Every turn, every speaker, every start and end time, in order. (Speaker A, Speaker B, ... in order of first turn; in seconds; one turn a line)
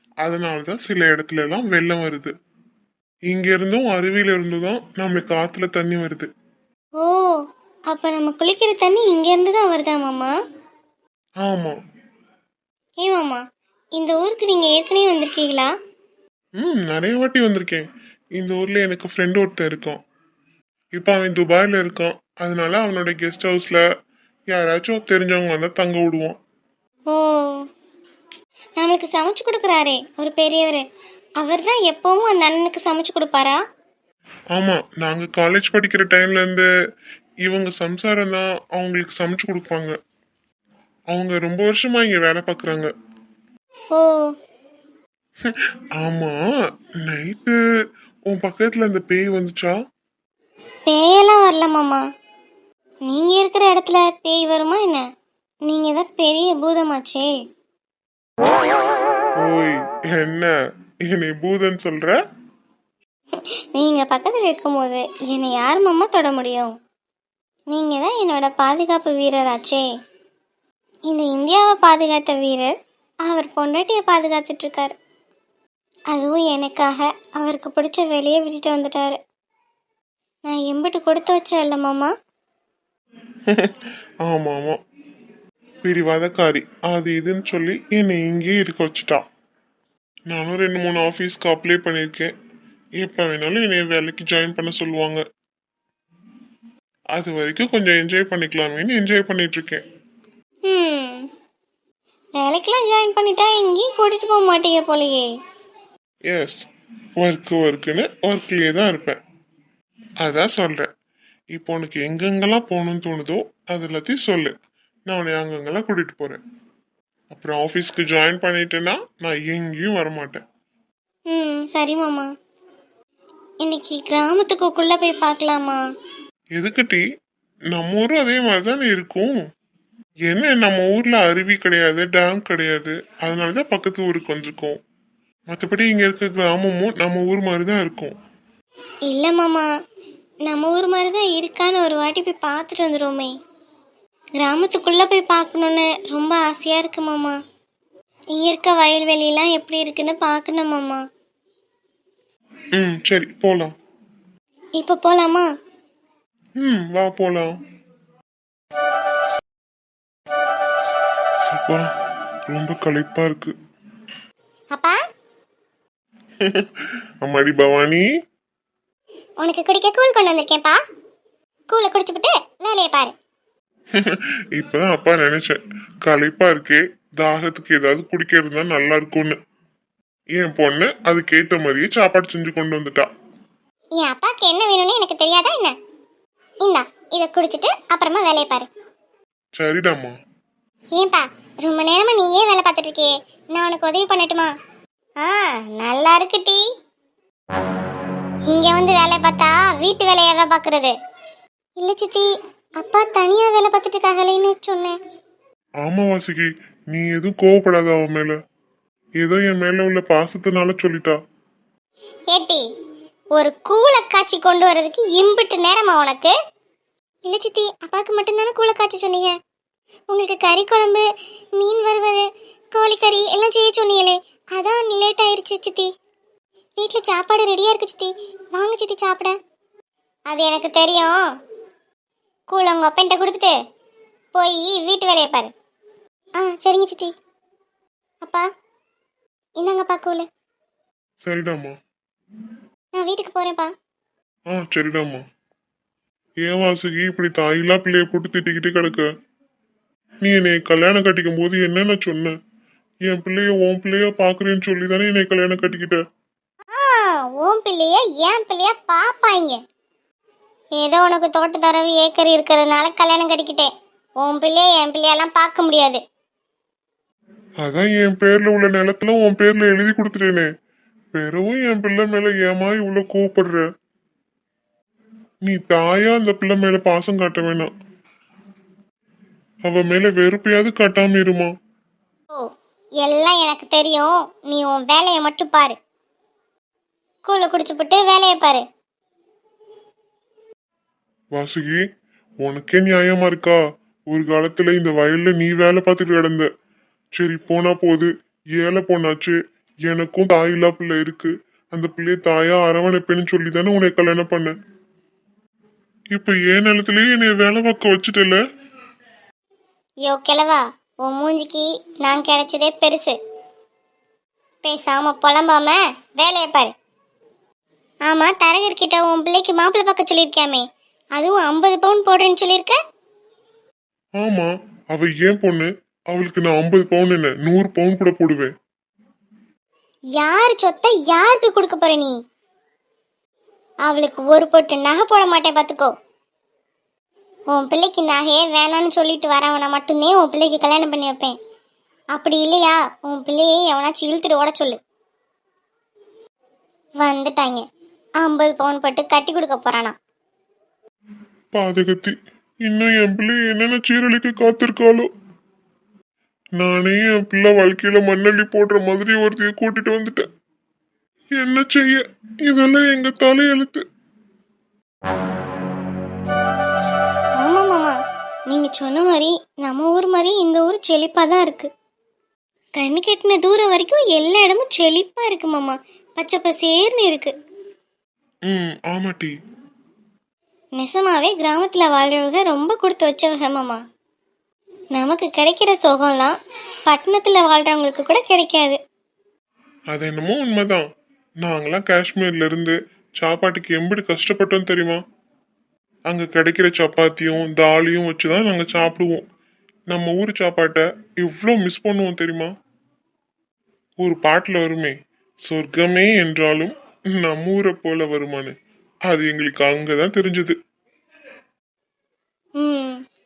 Speaker A: 0.2-2.3
Speaker A: 3.3-6.3
Speaker B: 7.0-7.3
Speaker B: 7.9-10.3
Speaker A: 11.4-11.8
Speaker B: 13.0-13.4
Speaker B: 14.0-15.7
Speaker A: 16.6-17.9
Speaker A: 18.4-20.0
Speaker A: 21.0-23.9
Speaker A: 24.5-26.4
Speaker B: 27.1-27.6
Speaker B: 28.8-30.8
Speaker B: 31.4-33.6
Speaker A: 34.5-36.7
Speaker A: 37.5-40.0
Speaker A: 41.1-42.9
Speaker B: 43.9-44.2
Speaker A: 45.5-47.6
Speaker A: 48.3-49.8
Speaker B: 50.9-52.0
Speaker B: 53.1-55.0
Speaker B: 55.7-57.3
Speaker A: 59.4-60.5
Speaker A: 61.1-62.2
Speaker B: 63.3-66.8
Speaker B: 67.7-69.9
Speaker B: 71.1-72.7
Speaker B: 73.3-74.9
Speaker B: 76.1-79.2
Speaker B: 80.5-82.1
Speaker A: 83.5-84.8
Speaker A: 85.8-89.2
Speaker A: 90.3-92.3
Speaker A: 93.0-95.2
Speaker A: 97.2-99.8
Speaker B: 100.7-101.3
Speaker B: 102.4-105.3
Speaker A: 106.3-106.7
Speaker A: 107.2-109.2
Speaker A: 110.2-110.9
Speaker A: 111.5-114.5
Speaker A: 115.1-116.4
Speaker A: 117.3-120.4
Speaker B: 121.3-122.3
Speaker B: 123.6-125.8
Speaker A: 126.5-127.0
Speaker A: 127.7-129.3
Speaker A: 130.3-134.8
Speaker A: 135.5-138.2
Speaker B: 139.1-139.7
Speaker B: 140.5-143.3
Speaker B: 144.4-147.4
Speaker B: 148.3-151.0
Speaker A: 152.8-153.7
Speaker B: 154.8-155.5
Speaker A: 156.6-157.6
Speaker A: 161.4-161.9
Speaker A: 162.5-163.5
Speaker A: 166.4-168.0
Speaker C: 169.4-170.8
Speaker C: 171.7-173.1
Speaker A: 173.9-179.4
Speaker A: 180.4-183.1
Speaker C: 184.0-185.8
Speaker C: 186.6-188.7
Speaker A: 189.6-190.1
Speaker C: 190.9-194.5
Speaker C: 195.2-196.6
Speaker C: 198.5-200.9
Speaker C: 201.8-202.3
Speaker C: 202.8-204.9
Speaker A: 205.8-208.4
Speaker A: 209.2-211.2
Speaker C: 212.3-212.6
Speaker C: 213.3-216.3
Speaker C: 217.3-219.3
Speaker C: 220.1-221.1
Speaker C: 221.6-225.9
Speaker C: 226.8-229.3
Speaker C: 230.3-231.2
Speaker C: 232.5-233.6
Speaker C: 234.3-235.5
Speaker C: 236.4-237.1
Speaker C: 239.6-240.2
Speaker A: 241.2-241.8
Speaker C: 243.0-243.7
Speaker A: 244.5-245.2
Speaker A: 246.4-249.1
Speaker A: 250.2-252.3
Speaker A: 253.1-256.0
Speaker C: 256.7-259.6
Speaker C: 260.8-266.0
Speaker A: 267.6-270.5
Speaker A: 271.1-273.6
Speaker A: 275.4-277.7
Speaker A: 279.7-281.5
Speaker C: 283.0-285.8
Speaker C: 287.2-288.6
Speaker A: 291.3-291.8
Speaker A: 292.4-293.6
Speaker A: 294.1-296.5
Speaker A: 297.2-299.4
Speaker A: 299.9-304.5
Speaker A: 306.1-308.4
Speaker C: 310.1-313.1
Speaker C: 314.6-316.7
Speaker C: 318.1-320.6
Speaker C: 321.2-322.8
Speaker A: 324.2-328.5
Speaker C: 330.2-332.1
Speaker C: 333.9-335.9
Speaker C: 337.5-341.4
Speaker C: 342.1-344.8
Speaker C: 347.0-347.6
Speaker C: 348.2-349.9
Speaker A: 351.5-352.1
Speaker A: 352.7-355.1
Speaker A: 356.6-360.2
Speaker A: 361.4-363.8
Speaker B: 367.4-368.0
Speaker B: 368.5-371.7
Speaker B: 372.8-377.3
Speaker A: 378.5-379.3
Speaker B: 380.8-383.8
Speaker B: 384.9-388.8
Speaker A: 389.9-390.8
Speaker A: 391.4-395.0
Speaker A: 396.1-399.2
Speaker A: 399.9-402.5
Speaker A: 404.0-408.5
Speaker A: 409.1-410.5
Speaker B: 412.6-413.0